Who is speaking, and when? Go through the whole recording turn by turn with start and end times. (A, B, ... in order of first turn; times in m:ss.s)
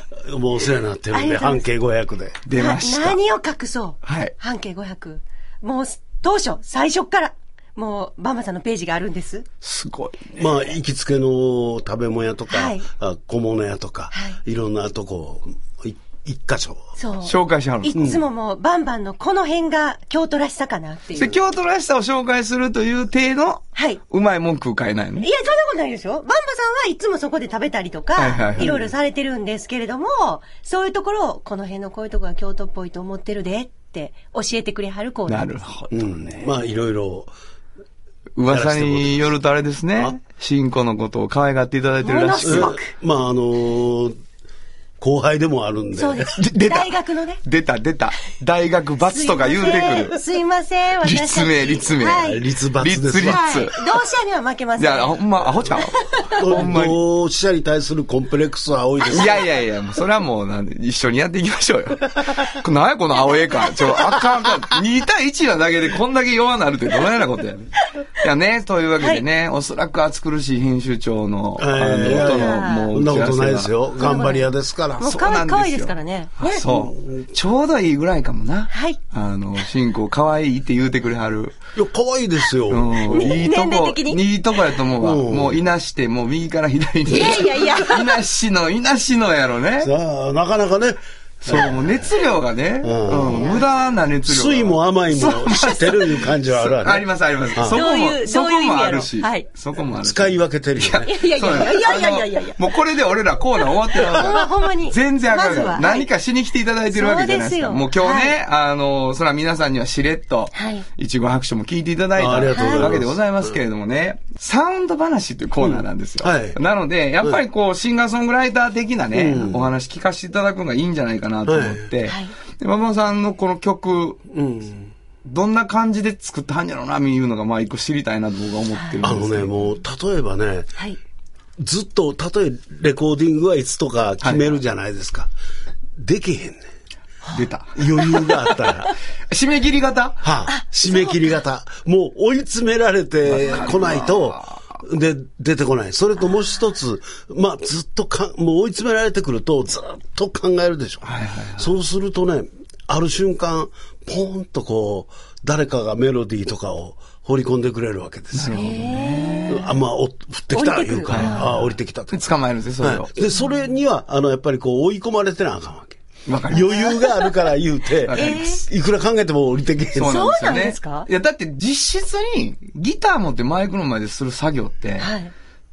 0:00.2-0:02.4 A
0:01.1-0:01.6 B
0:02.4-0:03.2 C
0:02.5-0:09.5 B
0:04.0-0:04.3 C
0:09.6-0:10.4 C
0:10.4-0:16.8 A
0:12.5-0:12.8 B
0:14.1-0:14.4 B
0:17.0-0:21.4 B
0:17.2-0:18.2 C
0:18.0-0:18.2 A
0:21.2-0:25.3 C
0:25.2-0:35.5 B
0:28.2-0:28.8 C
0:28.6-0:28.9 A
0:35.3-0:36.5 C
0:35.9-0:37.3 A
0:38.4-0:42.8 C
0:38.5-0:39.3 A
0:42.0-0:42.9 B
0:42.4-0:44.2 A
0:45.0-0:46.3 A
0:46.0-0:47.4 B
0:46.3-0:50.2 C
0:49.1-0:52.4 B
0:51.0-0:53.8 C
0:52.2-0:53.7 A
0:53.2-0:56.4 B
0:54.8-0:57.0 C
0:56.4-0:59.4 A
0:59.1-1:07.7 C
1:08.2-1:13.7 C
1:11.6-1:15.2 A
1:12.1-1:12.9 B
1:14.0-1:14.5 B
1:15.0-1:16.6 B
1:15.0-1:21.6 C
1:16.6-1:17.2 A
1:18.7-1:19.0 B
1:21.7-1:23.3 A
1:22.7-1:29.9 C
1:23.1-1:24.2 B
1:25.0-1:25.6 A
1:27.1-1:28.2 B
1:29.8-1:32.1 A
1:31.4-2:04.2 C
1:32.8-1:33.6 A
1:34.2-1:37.8 A
1:37.7-1:39.5 B
1:40.0-1:41.6 A
1:41.0-1:42.6 B
1:44.0-1:46.1 B
1:46.9-1:48.4 B
1:50.5-1:50.8 B
1:52.2-1:53.2 A
1:52.5-1:52.9 B
1:55.6-1:56.6 A
1:59.1-1:59.7 A
2:01.4-2:01.8 A
2:02.0-2:02.3 B
2:04.3-2:04.9 A
2:05.2-2:09.5 C
2:09.0-2:10.7 A
2:11.6-2:15.3 A
2:14.2-2:14.6 C
2:16.0-2:16.6 A
2:17.3-2:18.6 C
2:17.7-2:18.9 A
2:19.3-2:20.2 C
2:20.2-2:38.7 A
2:20.5-2:21.3 B
2:23.2-2:24.6 C
2:31.0-2:31.7 C
2:38.3-2:39.6 C
2:38.5-2:39.6 B
2:39.5-2:42.3 A
2:40.5-2:41.4 B
2:41.1-2:43.1 C
2:42.8-2:50.2 A
2:46.3-2:47.0 C
2:46.7-2:47.1 B
2:48.0-2:48.6 C
2:48.1-2:48.6 B
2:49.9-2:55.1 C
2:50.0-2:51.1 B
2:55.0-2:55.3 B